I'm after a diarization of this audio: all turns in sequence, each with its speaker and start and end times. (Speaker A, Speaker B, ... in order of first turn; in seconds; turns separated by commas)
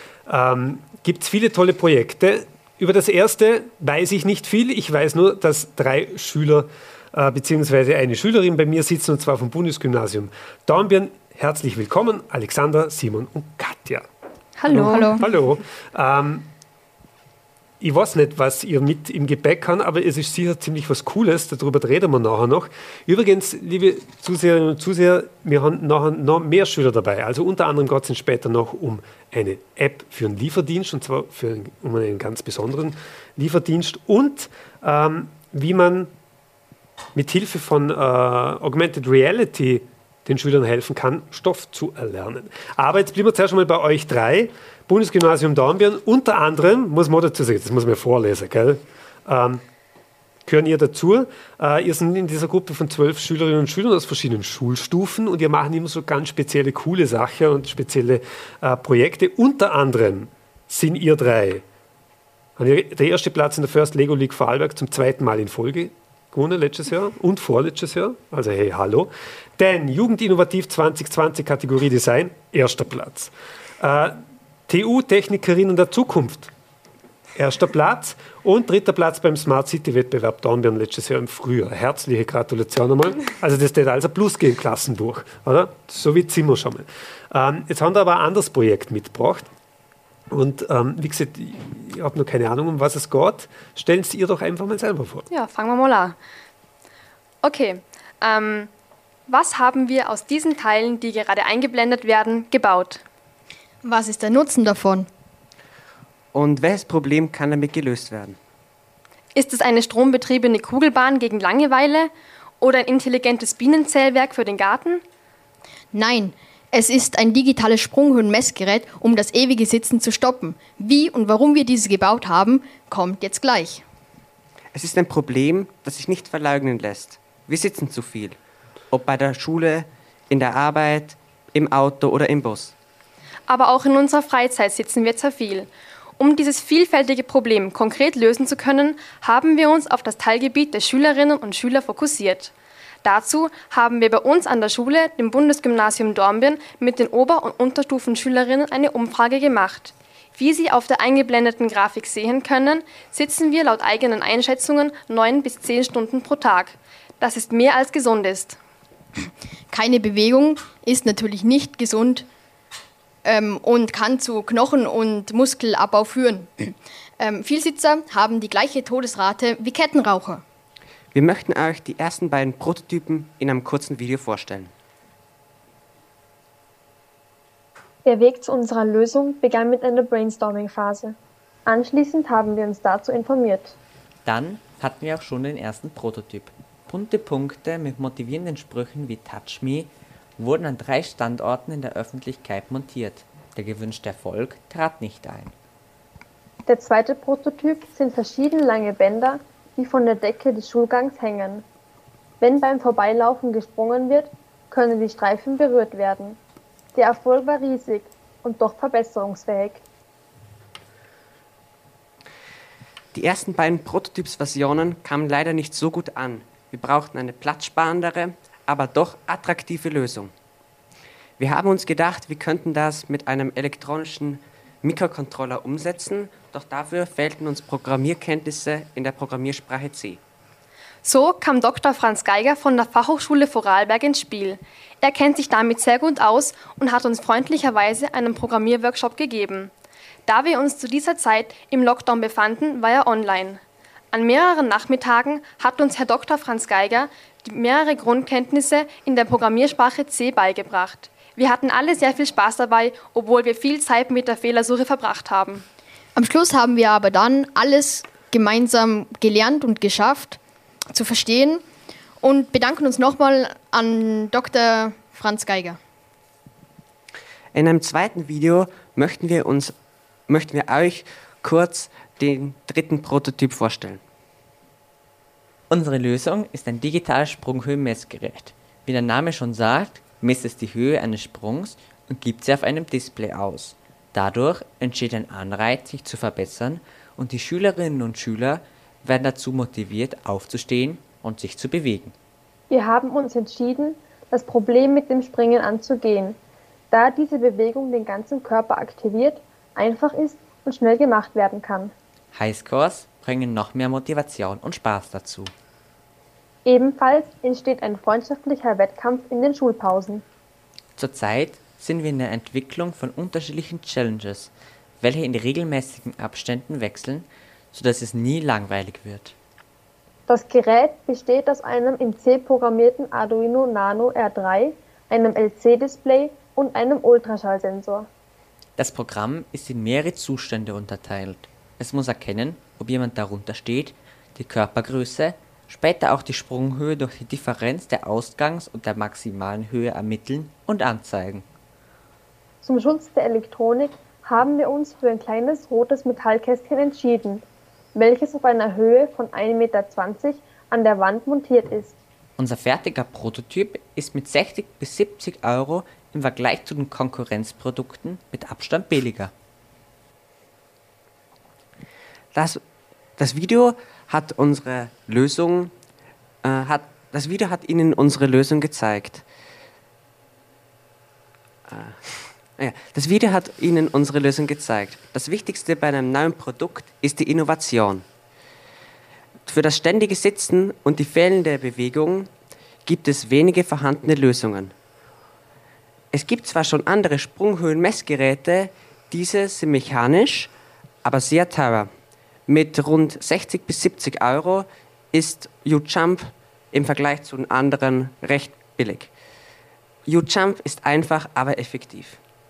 Speaker A: 0.3-14.1, Speaker B: 14.6-15.2, Speaker A: 14.7-16.5, Speaker C: 14.9-15.2, Speaker A: 17.8-36.1, Speaker A: 37.1-49.6, Speaker A: 50.5-61.6, Speaker A: 62.6-74.2, Speaker A: 74.7-76.5, Speaker A: 77.4-89.5, Speaker A: 90.3-95.3, Speaker B: 95.3-96.2, Speaker B: 97.4-98.7, Speaker B: 99.3-103.0, Speaker C: 103.8-105.1, Speaker D: 106.3-108.4, Speaker B: 109.3-115.0, Speaker C: 115.9-123.8, Speaker D: 124.7-128.4, Speaker D: 128.9-132.8, Speaker B: 133.5-142.5, Speaker B: 143.0-158.6, Speaker C: 159.7-162.3, Speaker C: 163.2-170.4, Speaker D: 171.1-174.7, Speaker E: 178.1-181.2, Speaker E: 181.7-183.8, Speaker F: 184.2-195.5, Speaker E: 196.7-201.7, Speaker E: 202.4-206.4, Speaker E: 206.9-209.8, Speaker D: 213.1-220.3, Speaker D: 221.4-230.2, Speaker B: 231.0-239.7, Speaker B: 240.3-243.6, Speaker B: 244.1-255.7, Speaker C: 256.1-260.4, Speaker C: 260.9-261.6, Speaker C: 262.2-265.8, Speaker D: 267.5-269.7, Speaker D: 270.3-274.0, Speaker F: 275.7-292.1, Speaker E: 292.7-296.4, Speaker E: 296.9-301.9, Speaker F: 302.3-305.5, Speaker E: 306.6-310.2, Speaker F: 310.9-319.4, Speaker E: 320.3-328.1, Speaker F: 328.8-341.5, Speaker E: 342.6-347.4, Speaker E: 347.9-351.9, Speaker F: 352.4-359.3, Speaker D: 362.3-362.6, Speaker D: 363.2-365.7, Speaker D: 366.4-369.2, Speaker D: 371.7-378.1, Speaker D: 379.5-382.3, Speaker D: 382.9-384.7, Speaker D: 386.1-390.5, Speaker D: 391.0-391.9, Speaker D: 392.5-399.1, Speaker D: 400.1-402.2